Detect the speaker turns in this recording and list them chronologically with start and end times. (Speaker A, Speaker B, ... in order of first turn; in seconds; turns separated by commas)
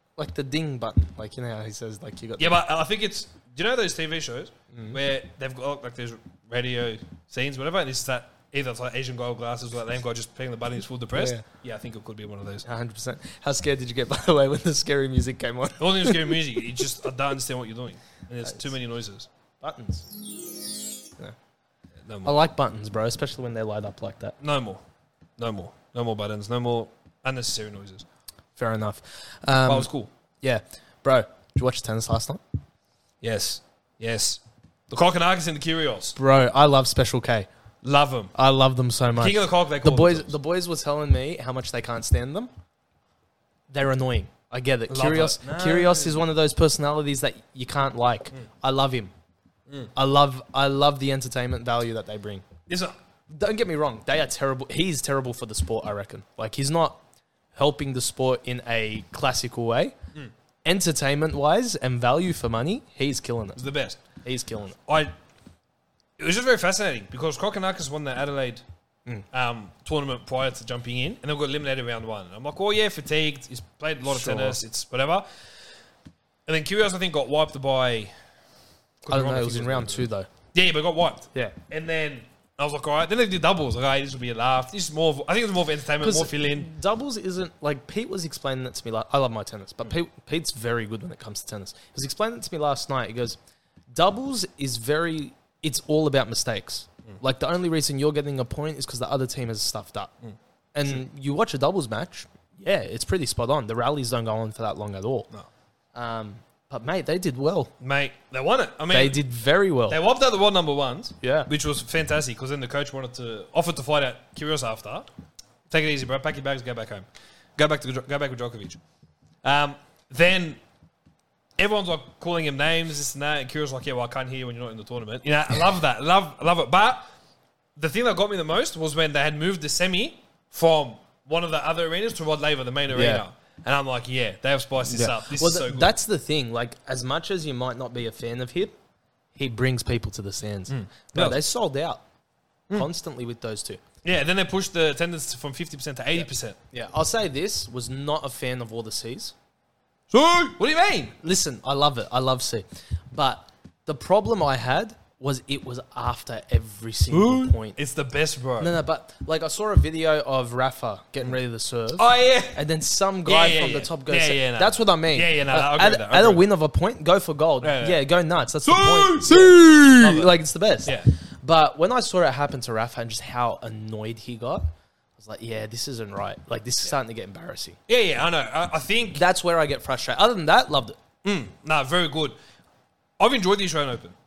Speaker A: 0.2-2.6, Speaker B: 2.4-12.7, Speaker A: 4.7-5.0, Speaker A: 11.1-11.4, Speaker A: 12.6-16.4, Speaker B: 15.8-19.3, Speaker A: 19.6-20.1, Speaker B: 22.1-22.3, Speaker A: 22.2-24.4, Speaker B: 24.4-24.8, Speaker B: 25.4-28.0, Speaker A: 28.6-29.9, Speaker B: 29.6-30.1, Speaker A: 30.4-32.4, Speaker B: 33.2-36.1, Speaker A: 36.1-37.5, Speaker B: 37.8-38.3, Speaker A: 38.3-42.5, Speaker B: 39.2-40.3, Speaker A: 43.7-49.1, Speaker B: 44.9-46.3, Speaker A: 49.9-52.4, Speaker B: 52.7-52.9, Speaker A: 53.3-57.0, Speaker A: 57.5-60.0, Speaker A: 60.6-63.6, Speaker B: 63.6-64.0, Speaker A: 64.2-64.8, Speaker B: 64.9-65.1, Speaker B: 66.2-68.6, Speaker B: 69.3-75.3, Speaker A: 74.0-74.6, Speaker B: 76.5-78.1, Speaker B: 79.0-86.7, Speaker A: 79.1-80.3, Speaker A: 86.0-93.4, Speaker A: 93.9-100.1, Speaker A: 100.7-105.3, Speaker A: 105.9-107.7, Speaker B: 107.8-109.2, Speaker A: 108.9-110.0, Speaker B: 109.9-115.1, Speaker A: 111.2-111.5, Speaker B: 115.7-117.0, Speaker B: 117.6-118.8, Speaker B: 119.4-120.6, Speaker B: 121.6-127.0, Speaker B: 127.8-135.9, Speaker A: 132.9-133.2, Speaker A: 134.9-138.8, Speaker A: 139.3-142.0, Speaker B: 140.7-141.4, Speaker A: 142.7-143.8, Speaker B: 144.0-146.6, Speaker A: 146.2-149.3, Speaker B: 150.1-151.1, Speaker A: 151.2-157.8, Speaker B: 157.1-158.8, Speaker A: 158.6-177.8, Speaker B: 162.0-162.6, Speaker B: 163.2-166.4, Speaker B: 167.6-168.0, Speaker B: 168.6-170.3, Speaker B: 177.9-179.2, Speaker A: 179.1-181.0, Speaker B: 181.2-182.3, Speaker B: 183.2-184.1